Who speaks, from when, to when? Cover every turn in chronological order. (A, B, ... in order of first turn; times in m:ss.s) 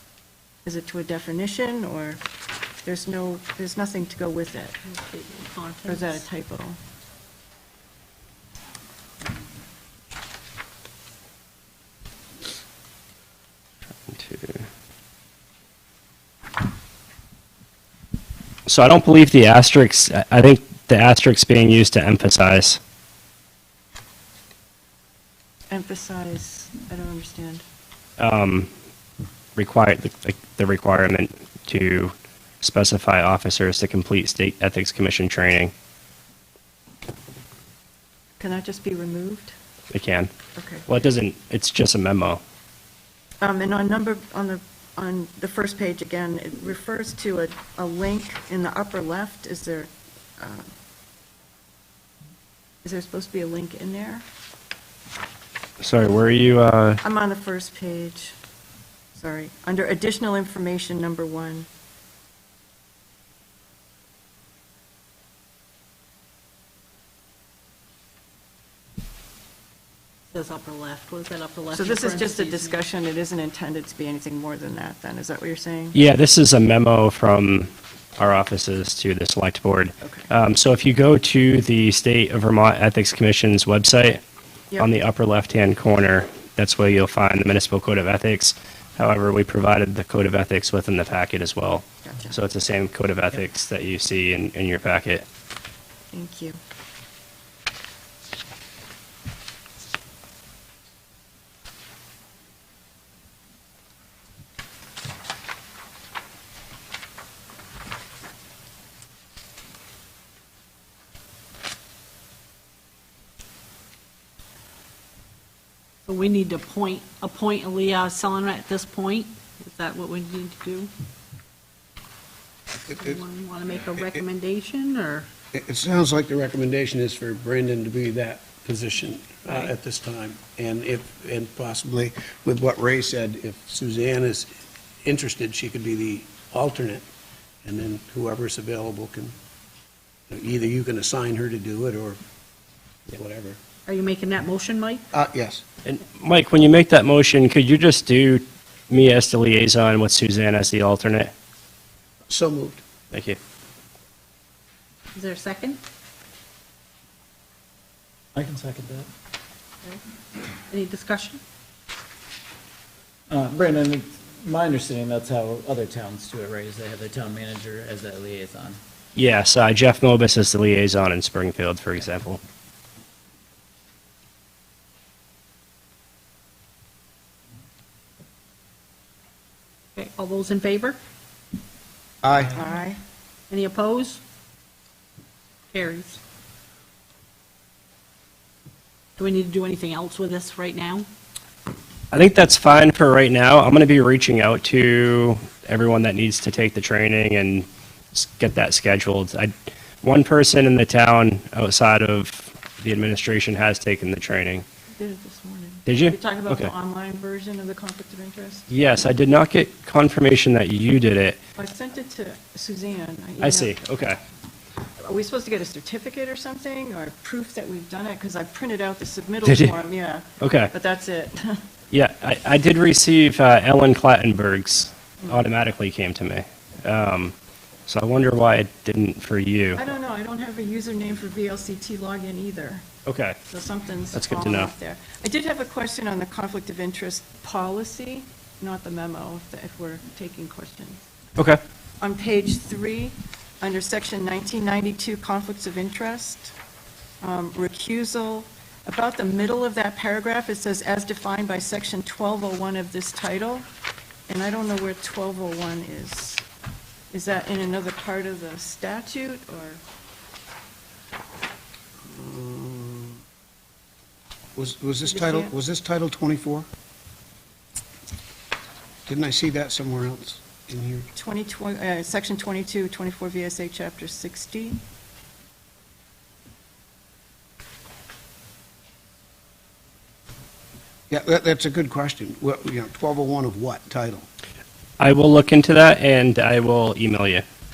0:00.6-0:02.2 A
0:02.8-0:04.8 A
0:04.8-0:06.2 B
0:05.8-0:06.8 A
0:14.1-0:14.6 C
0:18.7-0:22.8 C
0:25.7-0:27.6 A
0:28.2-0:28.7 C
0:29.6-0:35.7 C
0:38.4-0:39.5 A
0:39.9-0:40.3 C
0:40.5-0:40.8 A
0:40.9-0:42.4 C
0:43.4-0:50.7 A
0:52.8-0:54.2 A
0:55.8-0:57.0 C
0:57.0-0:58.4 A
0:59.2-1:01.7 A
1:10.3-1:12.8 B
1:11.7-1:16.0 A
1:15.9-1:24.2 C
1:20.0-1:20.3 A
1:24.8-1:35.2 C
1:32.0-1:32.4 A
1:36.1-1:36.6 A
1:56.0-2:00.9 B
2:02.8-2:05.3 B
2:05.5-2:14.5 D
2:15.0-2:17.0 D
2:17.6-2:19.3 D
2:20.3-2:22.2 D
2:23.1-2:23.6 D
2:23.8-2:25.0 B
2:25.1-2:25.6 D
2:25.8-2:31.3 C
2:32.3-2:32.8 D
2:33.1-2:33.4 C
2:35.1-2:35.8 B
2:38.3-2:39.1 E
2:40.7-2:41.4 B
2:43.3-2:48.8 E
2:49.1-2:52.4 C
3:00.0-3:01.0 B
3:02.2-3:02.6 D
3:02.5-3:03.0 A
3:03.5-3:04.2 B
3:05.7-3:06.2 B
3:09.2-3:11.1 B
3:12.1-3:24.6 C
3:25.0-3:28.7 A
3:25.8-3:26.7 C
3:28.7-3:31.4 C
3:31.6-3:33.8 A
3:33.4-3:34.2 C
3:35.0-3:41.6 A
3:39.4-3:39.8 C
3:40.4-3:40.7 C
3:41.9-3:47.3 C
3:47.9-3:49.8 C
3:49.7-3:52.8 A
3:53.0-3:53.4 C
3:53.5-4:01.0 A
3:54.1-3:54.7 C
4:02.0-4:06.5 A
4:07.2-4:13.6 A
4:14.3-4:16.4 A
4:17.1-4:19.8 A
4:22.1-4:23.2 D
4:24.6-4:26.7 D
4:25.1-4:25.5 A
4:29.1-4:31.1 D
4:31.1-4:34.8 A
4:41.1-4:44.2 D
4:45.0-4:47.4 C